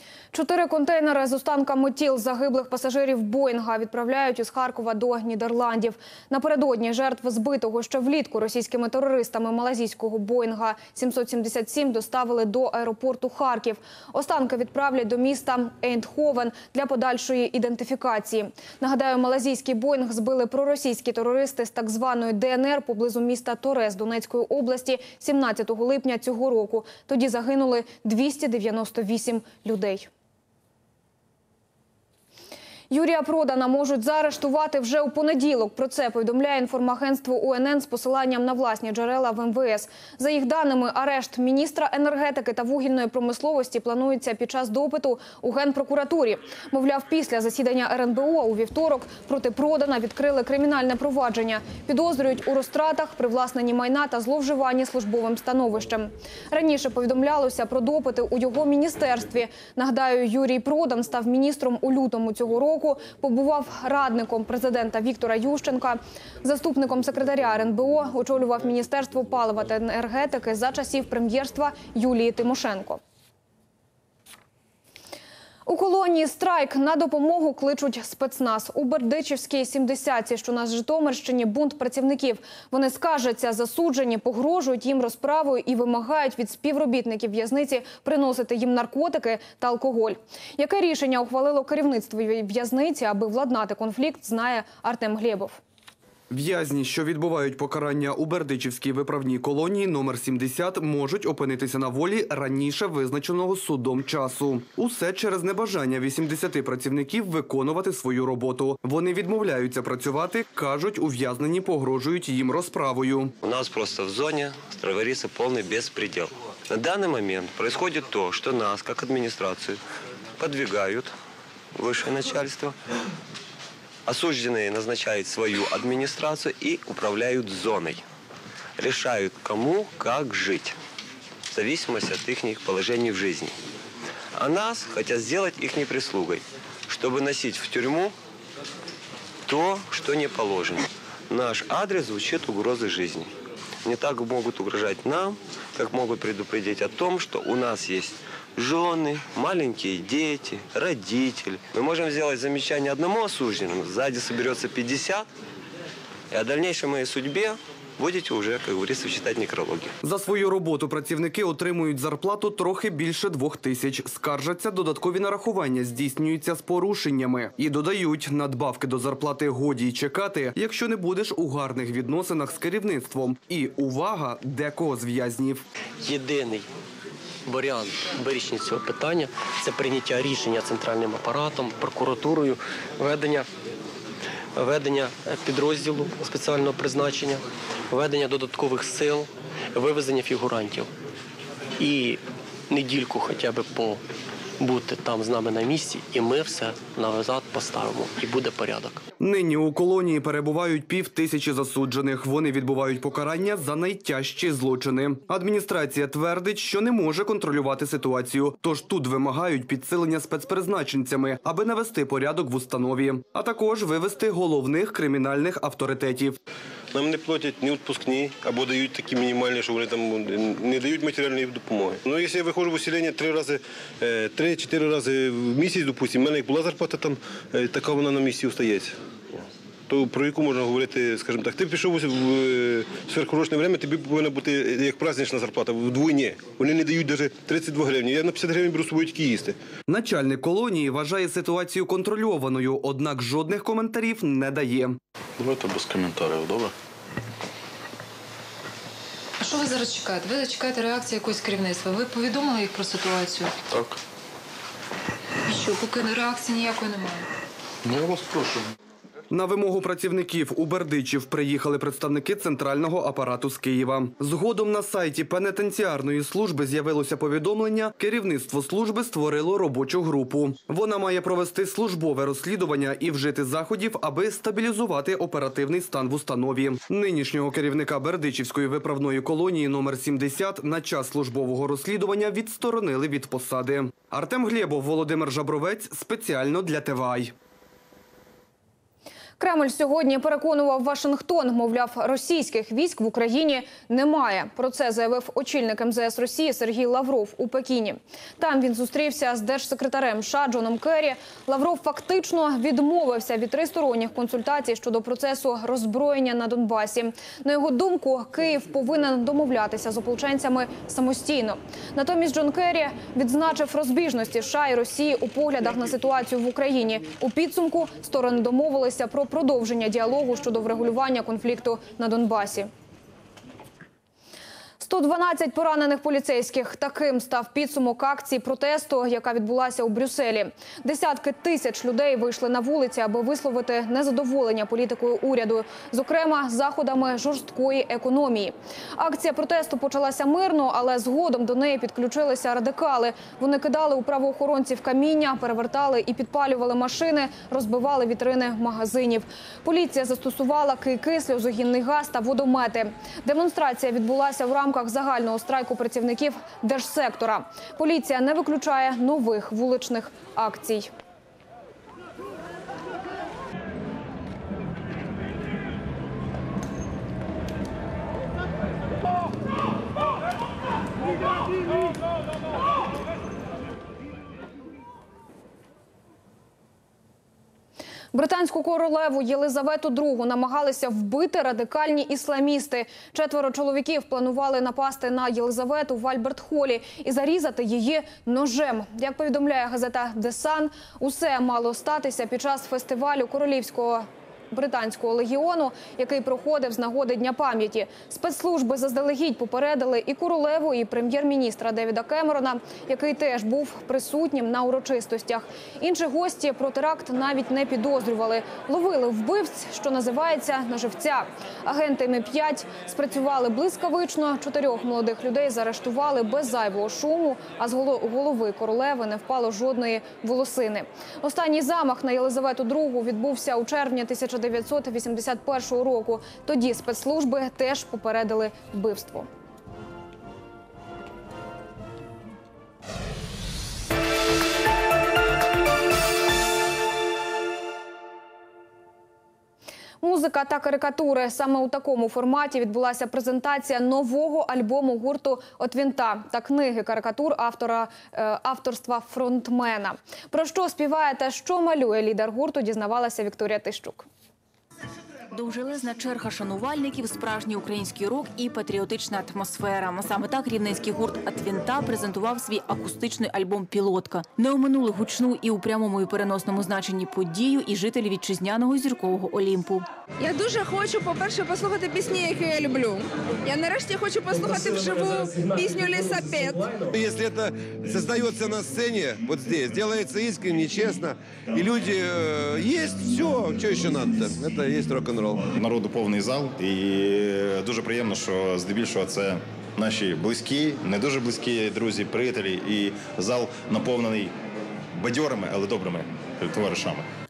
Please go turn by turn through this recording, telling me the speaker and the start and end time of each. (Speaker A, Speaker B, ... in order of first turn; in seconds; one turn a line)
Speaker A: 0.3-30.1
Speaker A: 32.9-73.0
Speaker A: 75.7-95.6
Speaker B: 96.3-113.3
Speaker C: 113.4-119.8
Speaker C: 120.4-121.1
Speaker C: 121.8-122.7
Speaker C: 124.1-128.0
Speaker C: 128.8-130.8
Speaker C: 131.5-133.5
Speaker C: 134.4-138.1
Speaker C: 139.4-143.3
Speaker C: 143.8-155.2
Speaker C: 156.3-159.9
Speaker B: 160.0-175.6
Speaker D: 176.0-176.7
Speaker D: 177.4-183.5
Speaker D: 184.6-190.9
Speaker D: 191.8-194.0
Speaker D: 194.6-199.0
Speaker B: 199.2-216.4
Speaker E: 216.9-228.9
Speaker E: 229.9-239.6
Speaker B: 239.9-245.0
Speaker F: 245.4-246.7
Speaker G: 249.4-253.6
Speaker F: 253.6-254.0
Speaker G: 255.5-257.2
Speaker F: 257.8-258.6
Speaker B: 259.3-287.3
Speaker A: 289.4-322.7
Speaker A: 324.8-360.9
Speaker A: 378.1-429.3
Speaker A: 440.0-454.1
Speaker H: 455.3-469.9
Speaker I: 470.2-476.8
Speaker J: 476.9-485.4
Speaker K: 485.5-494.3
Speaker K: 494.9-497.1